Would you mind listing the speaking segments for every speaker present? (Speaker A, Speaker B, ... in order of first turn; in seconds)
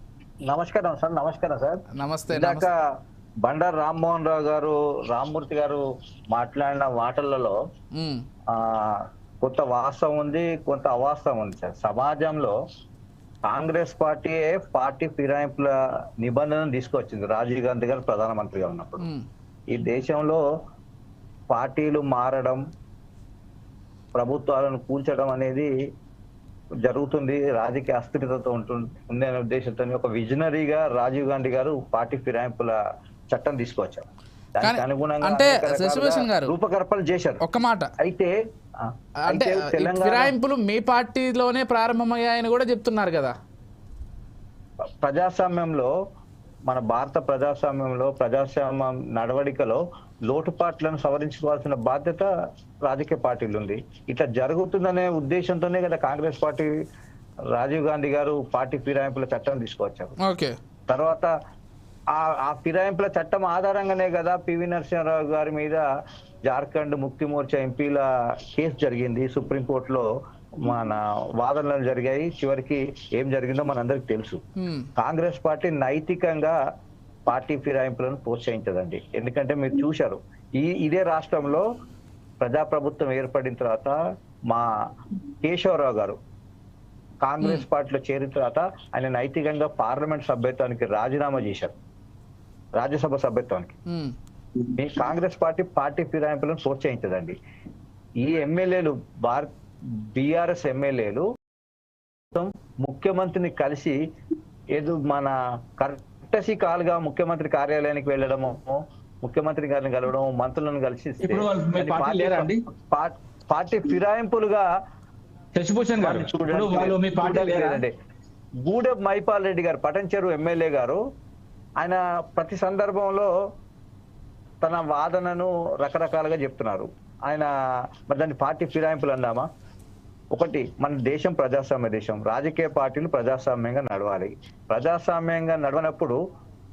Speaker A: 0.5-2.7, 3.4-5.8, 6.3-7.5, 8.5-12.6, 13.5-19.1, 19.7-20.4, 21.5-22.6, 24.1-25.7, 26.8-32.7, 33.3-37.4, 38.0-40.3, 45.0-45.9, 46.7-52.3, 52.8-56.7, 57.5-60.1, 60.9-61.3, 62.1-65.8, 66.5-70.1, 70.6-74.4, 75.0-76.5, 77.3-81.6, 82.4-84.0, 85.4-86.2, 87.2-91.7, 92.8-93.8, 94.8-97.3, 98.2-99.5, 100.1-101.2, 102.3-104.0, 104.7-114.6, 116.0-117.9, 118.6-121.0, 121.8-123.3, 124.6-127.5, 128.1-129.5, 130.3-136.2
Speaker B: 1.9-2.7, 7.9-8.2, 34.6-36.5, 37.4-37.9, 39.3-43.3, 60.2-60.5, 74.6-74.9, 93.9-94.1
Speaker C: 111.2-112.6, 115.5-117.8